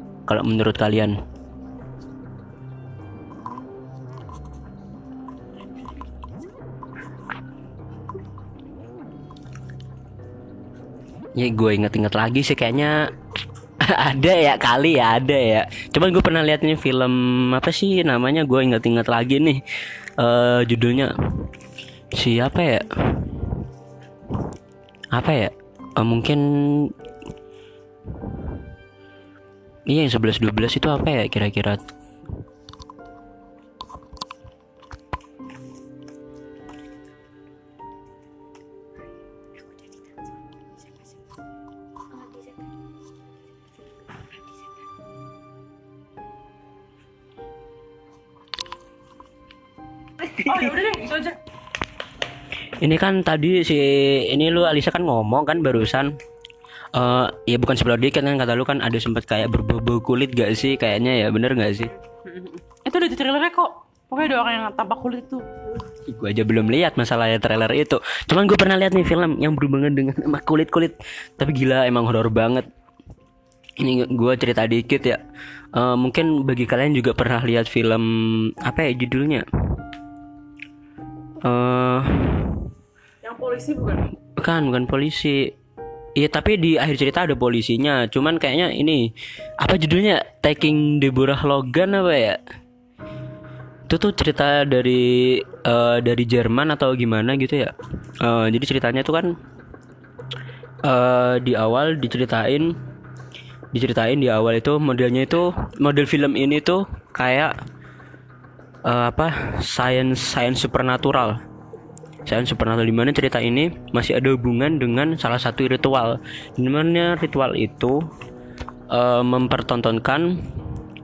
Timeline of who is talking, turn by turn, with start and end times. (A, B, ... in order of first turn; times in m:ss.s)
0:00.3-0:01.2 A
0:11.4-0:13.1 A
0:13.8-0:19.6 A
0:20.2-0:21.5 A
0:22.2-0:23.6 A
0:25.1-0:26.9 A
0:29.9-0:31.8 A
0:50.3-0:51.4 B
0:52.8-0:56.2 A
0:56.9-1:01.9 A
1:02.2-1:05.5 B
1:06.0-1:12.7 A
1:13.8-1:15.2 A
1:15.8-1:19.4 A
1:21.4-1:22.7 A
1:23.2-1:24.1 B
1:24.4-1:25.5 A
1:26.2-1:32.4 A
1:33.9-1:39.3 A
1:40.9-1:42.8 A
1:43.7-1:47.5 A
1:48.9-1:51.4 A
1:52.3-1:58.0 A
1:58.9-2:00.6 A